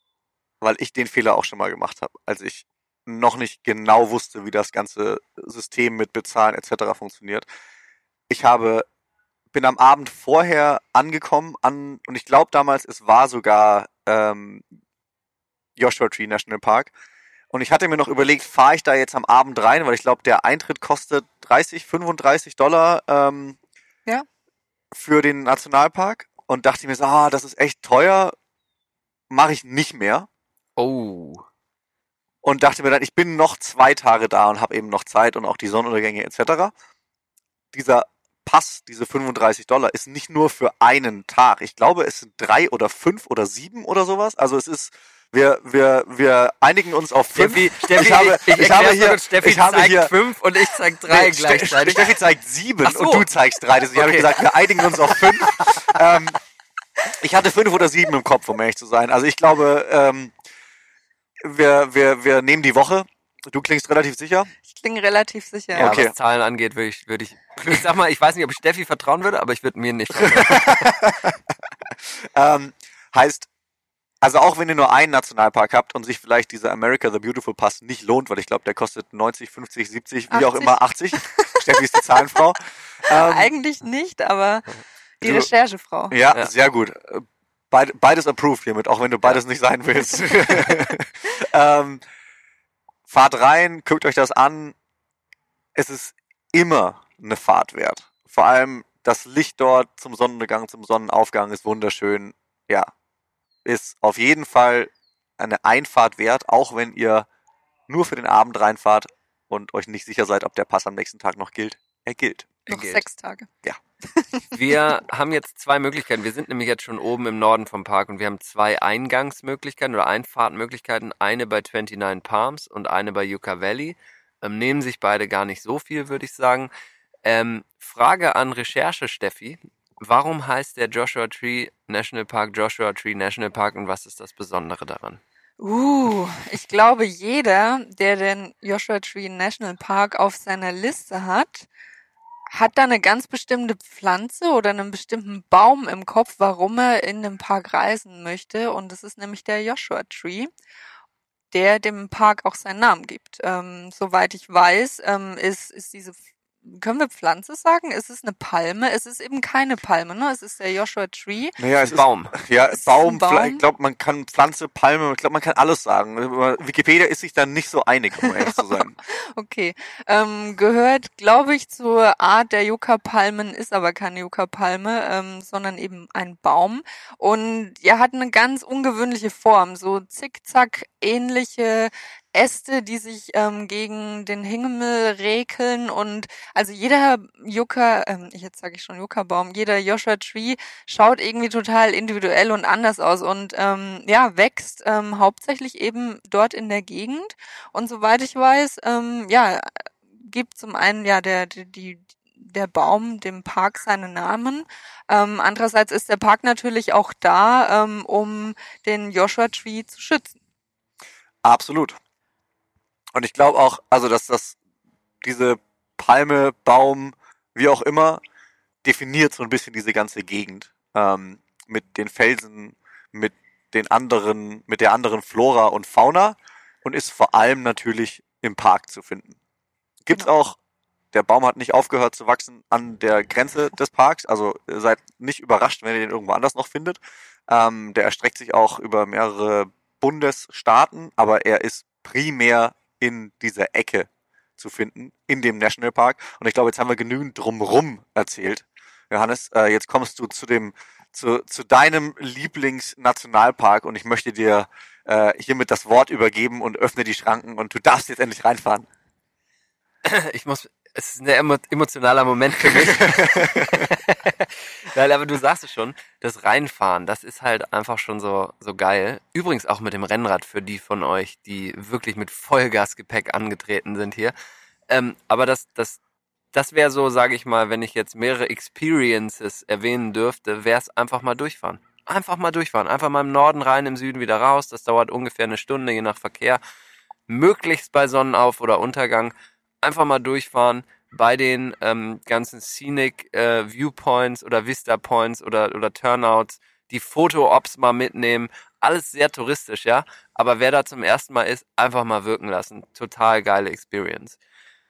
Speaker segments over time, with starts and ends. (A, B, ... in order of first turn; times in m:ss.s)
0:00.6-0:07.5 A
0:08.3-0:08.9 A
0:09.5-0:14.7 A
0:15.8-0:16.9 A
0:17.5-0:23.6 A
0:24.9-0:28.4 A
0:29.3-0:30.3 A
0:30.8-0:31.4 B
0:32.4-0:36.7 A
0:37.7-0:50.1 A
0:47.4-0:52.2 B
0:51.1-0:56.4 A
0:52.8-0:53.3 B
0:53.9-0:54.5 B
0:55.1-0:55.7 B
0:57.2-1:00.3 A
1:01.4-1:04.5 A
1:04.7-1:06.0 C
1:05.8-1:06.1 A
1:05.8-1:11.0 B
1:10.1-1:11.4 A
1:12.2-1:13.5 A
1:14.2-1:23.5 A
1:20.3-1:22.0 C
1:23.1-1:24.7 C
1:25.2-1:26.2 C
1:25.2-1:25.5 A
1:26.1-1:32.0 A
1:30.1-1:30.7 C
1:33.1-1:34.8 A
1:35.8-1:42.9 A
1:43.6-1:47.3 A
1:47.9-1:52.6 A
1:52.7-1:53.5 C
1:52.7-1:53.0 B
1:54.2-1:54.9 C
1:54.5-2:06.7 B
2:07.2-2:15.2 B
2:15.6-2:21.7 C
2:22.5-2:30.5 C
2:31.5-2:41.6 C
2:41.6-2:49.0 A
2:41.8-2:42.4 B
2:42.7-2:43.6 C
2:48.2-3:19.7 C
3:20.2-3:30.4 C
3:31.4-3:32.0 A
3:33.2-3:34.6 A
3:35.2-3:38.2 A
3:38.8-3:49.4 A
3:50.0-3:50.6 A
3:51.1-4:18.9 A
4:20.0-4:34.3 B
4:22.6-4:23.9 A
4:34.9-4:36.0 B
4:36.5-4:46.6 B
4:47.3-5:04.4 B